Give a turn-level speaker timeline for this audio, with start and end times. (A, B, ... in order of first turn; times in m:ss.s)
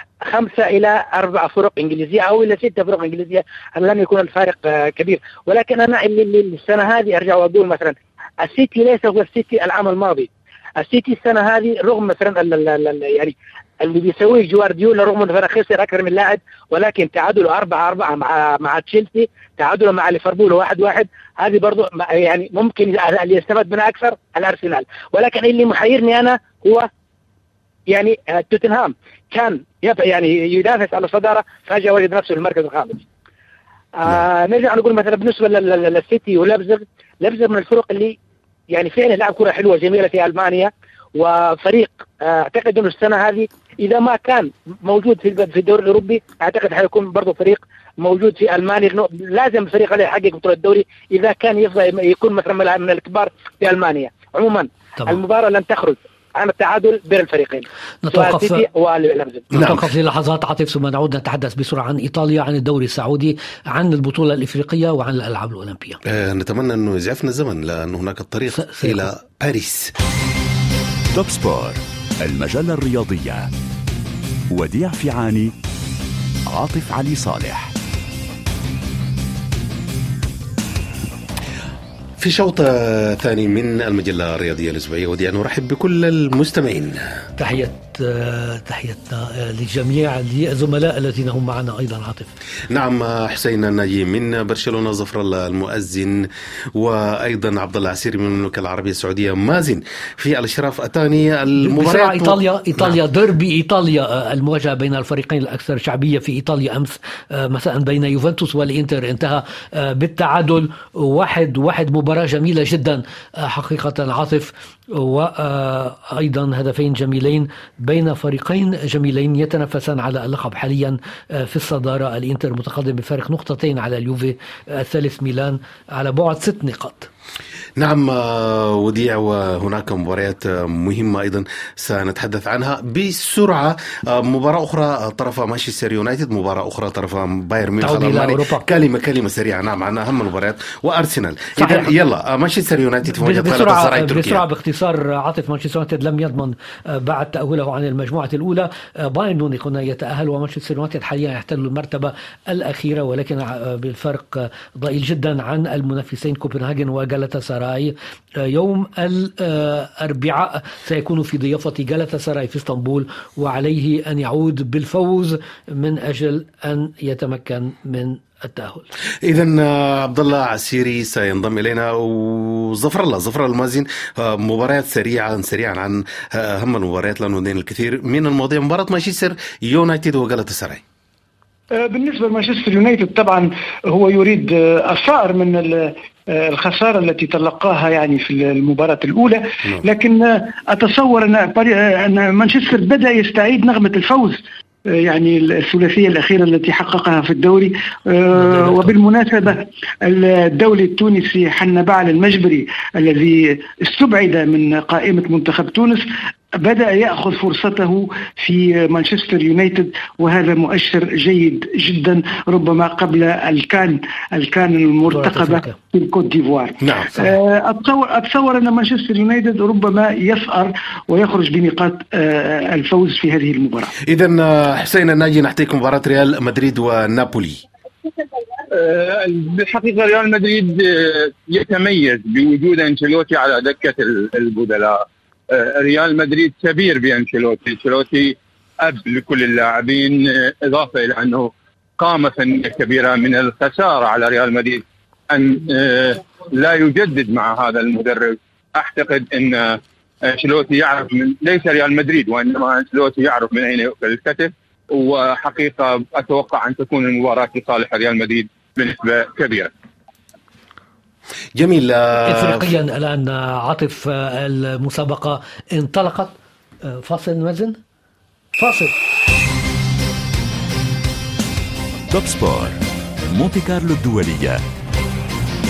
0:00.2-0:26.9 A
0:27.9-0:33.0 A
0:34.0-0:38.2 A
0:38.7-0:59.5 A
0:58.0-0:58.6 B
0:59.5-1:06.0 B
0:59.5-0:59.8 C
1:06.0-1:09.9 C
1:08.6-1:09.1 B
1:11.1-1:13.5 D
1:14.5-1:15.5 D
1:16.5-1:17.7 D
1:22.2-1:27.0 C
1:27.4-1:32.3 B
1:32.7-1:43.0 C
1:41.6-2:07.1 B
2:07.8-2:24.4 C
2:17.8-2:18.6 B
2:21.6-2:21.9 B
2:23.1-2:48.9 B
2:49.2-3:00.8 C
3:01.7-3:43.9 E
3:18.4-3:18.9 B
3:35.1-3:35.8 B
3:36.8-3:37.2 C
3:44.0-3:47.6 C
3:48.7-4:19.7 F
4:21.6-4:22.7 C
4:22.2-4:27.8 B
4:28.6-4:28.9 B
4:32.1-4:34.6 D